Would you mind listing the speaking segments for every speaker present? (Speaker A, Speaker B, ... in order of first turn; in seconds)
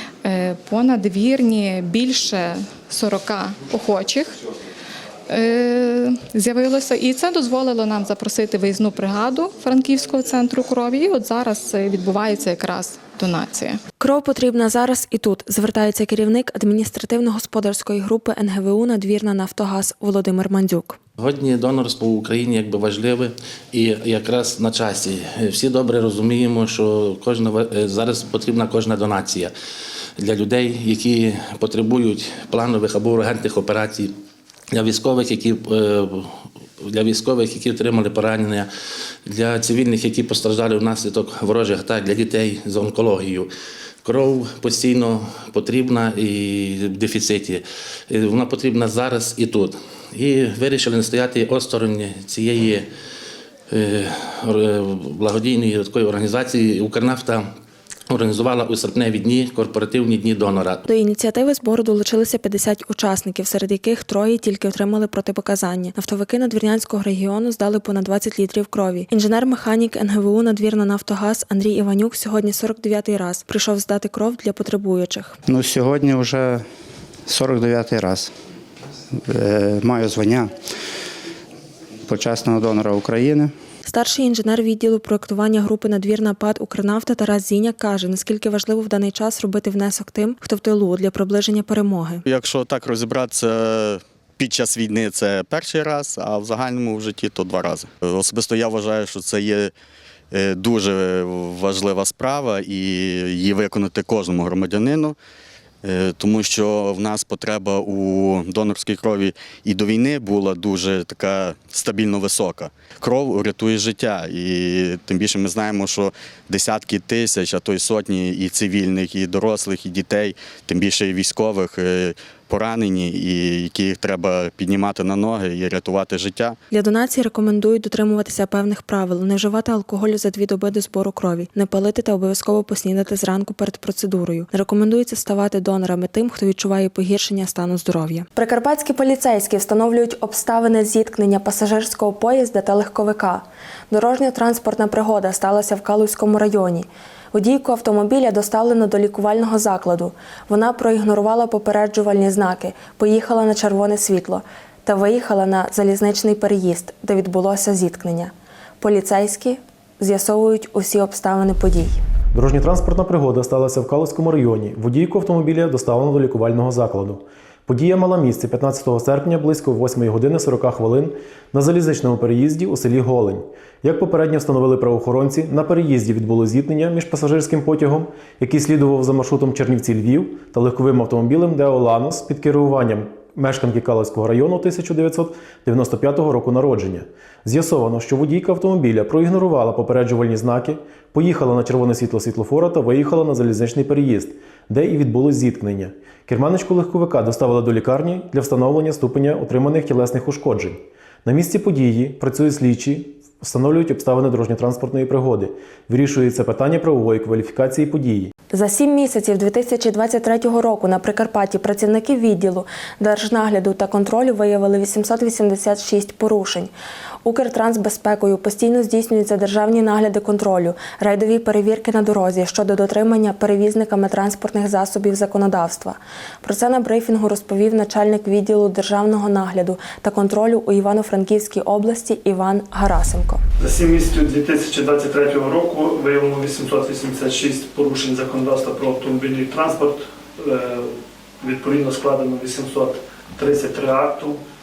Speaker A: 0.2-4.4, 5.3-13.8
Speaker B: 14.0-21.0, 60.9-75.4, 83.9-92.3, 126.7-162.0, 208.5-216.7, 217.2-233.4
Speaker C: 21.2-29.5, 30.2-34.1, 34.7-38.7, 39.3-43.5, 44.0-52.9, 53.7-57.5, 58.1-60.8
Speaker D: 75.5-76.7, 77.3-78.3, 79.2-80.5, 82.1-83.5
Speaker E: 92.3-99.7, 100.3-105.2, 105.8-126.6
Speaker F: 162.3-208.3
Speaker G: 233.6-244.4